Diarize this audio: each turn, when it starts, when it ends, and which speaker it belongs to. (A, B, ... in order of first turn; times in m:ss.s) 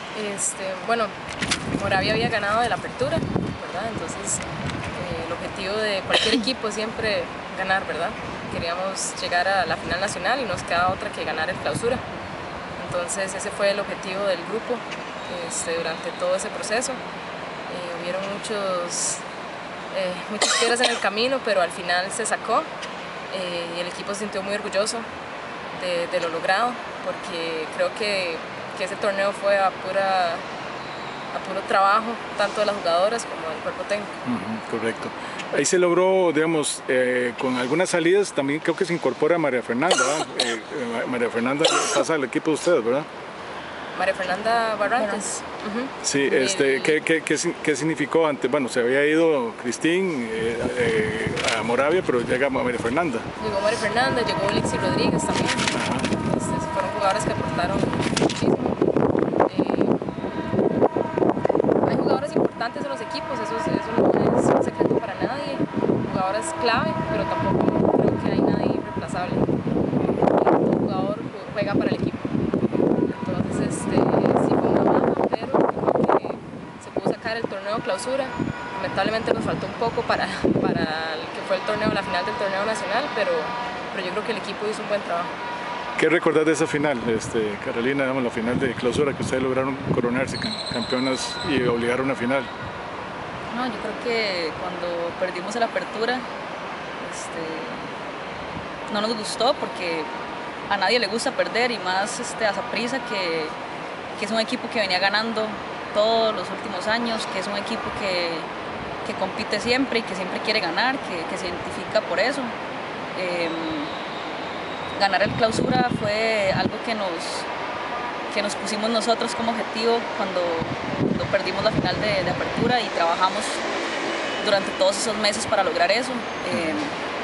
0:00.1-0:01.1 A
0:01.8-0:04.4 A
0:04.9-0:12.0 A
0:12.8-0:17.0 A
0:17.7-0:19.2 A
0:19.9-0:22.7 A
0:23.3-0:25.0 A
0:25.8-0:30.4 A
0:31.3-0:34.1 A
0:34.2-0:43.1 B
0:43.9-0:47.0 A
0:45.0-0:45.3 C
0:46.0-0:53.3 B
0:53.4-0:55.7 A
0:55.7-0:56.1 B
0:56.2-0:58.8 A
0:59.4-1:00.0 A
1:01.8-1:09.5 A
1:10.2-1:12.3 A
1:13.1-1:25.3 A
1:26.0-1:32.5 B
1:33.5-1:36.2 C
1:37.0-1:37.9 C
1:38.9-1:40.1 C
1:40.7-1:43.5 C
1:44.2-1:48.5 C
1:49.0-1:52.5 C
1:53.1-1:53.9 C
1:54.9-1:57.5 C
1:58.3-2:03.6 C
2:04.4-2:06.9 C
2:06.5-2:06.8 B